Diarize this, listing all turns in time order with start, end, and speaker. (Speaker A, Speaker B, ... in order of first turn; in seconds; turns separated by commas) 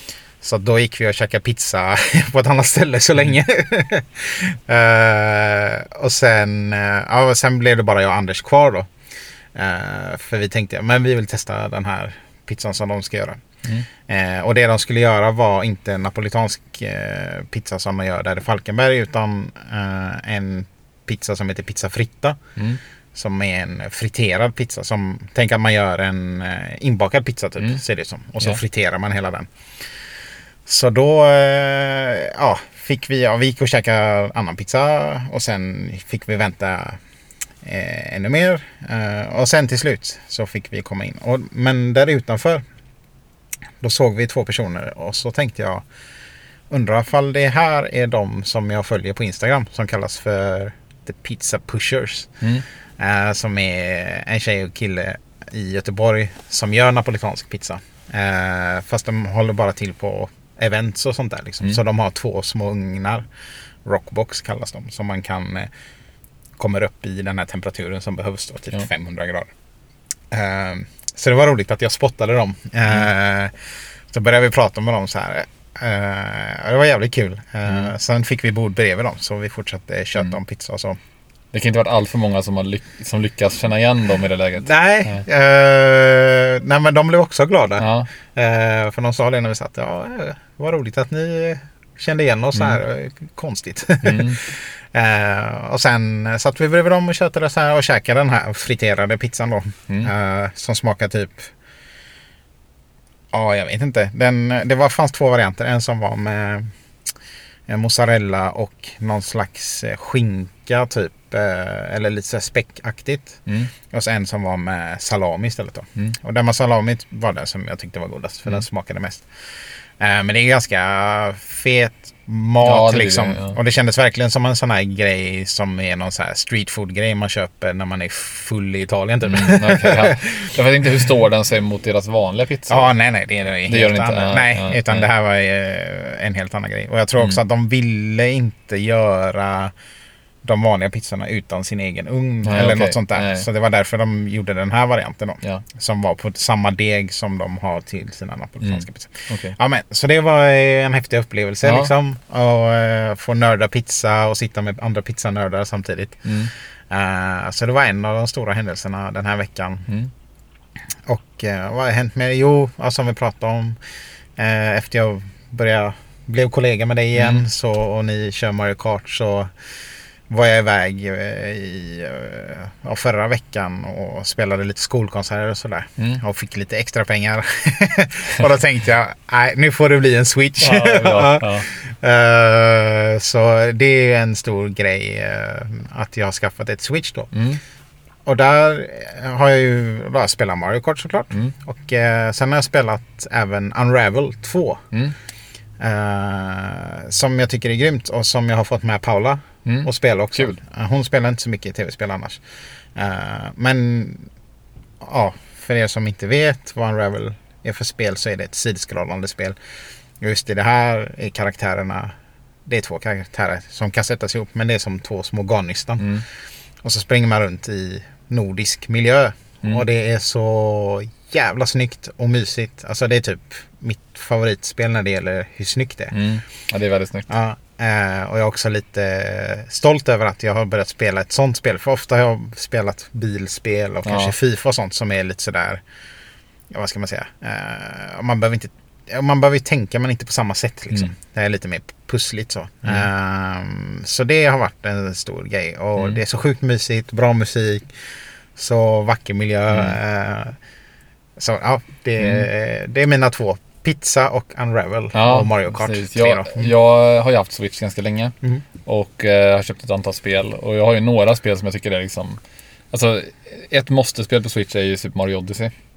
Speaker A: 0.4-8.9, Speaker A: 9.5-13.4, Speaker A: 14.0-22.4, Speaker A: 23.1-29.5, Speaker A: 30.6-37.0, Speaker A: 37.6-42.6, Speaker A: 43.8-45.8, Speaker A: 46.7-52.3, Speaker A: 53.0-63.2, Speaker A: 63.8-65.7, Speaker A: 66.6-69.5, Speaker A: 70.3-73.5, Speaker A: 74.1-81.0, Speaker B: 77.7-77.9, Speaker B: 81.5-85.2, Speaker A: 84.6-101.5, Speaker B: 87.8-88.1, Speaker B: 92.5-92.8, Speaker B: 94.0-94.4, Speaker A: 103.3-106.7, Speaker A: 107.7-119.3, Speaker B: 113.5-113.7, Speaker A: 120.0-131.0, Speaker B: 122.6-123.6, Speaker B: 129.2-132.9, Speaker A: 132.7-139.7, Speaker B: 133.7-135.1, Speaker A: 140.4-156.3, Speaker B: 142.4-143.5, Speaker B: 148.6-149.6, Speaker B: 151.6-151.9, Speaker B: 156.2-156.5, Speaker A: 156.9-159.9, Speaker A: 161.1-163.8, Speaker A: 164.4-169.5, Speaker B: 167.1-167.4, Speaker A: 170.3-187.3, Speaker B: 180.6-181.7, Speaker B: 187.3-187.6, Speaker A: 188.2-194.8, Speaker A: 195.8-202.4, Speaker B: 199.6-200.6, Speaker A: 202.9-204.3, Speaker A: 205.0-209.6, Speaker A: 210.2-212.1, Speaker A: 212.7-216.1, Speaker B: 216.0-216.2, Speaker A: 216.8-226.1, Speaker B: 226.1-227.3, Speaker A: 227.3-235.8, Speaker B: 234.0-234.3, Speaker A: 236.7-247.9, Speaker A: 248.6-250.6, Speaker B: 249.7-250.0, Speaker A: 251.4-256.7, Speaker B: 252.2-252.5, Speaker B: 255.1-262.4, Speaker B: 262.9-265.7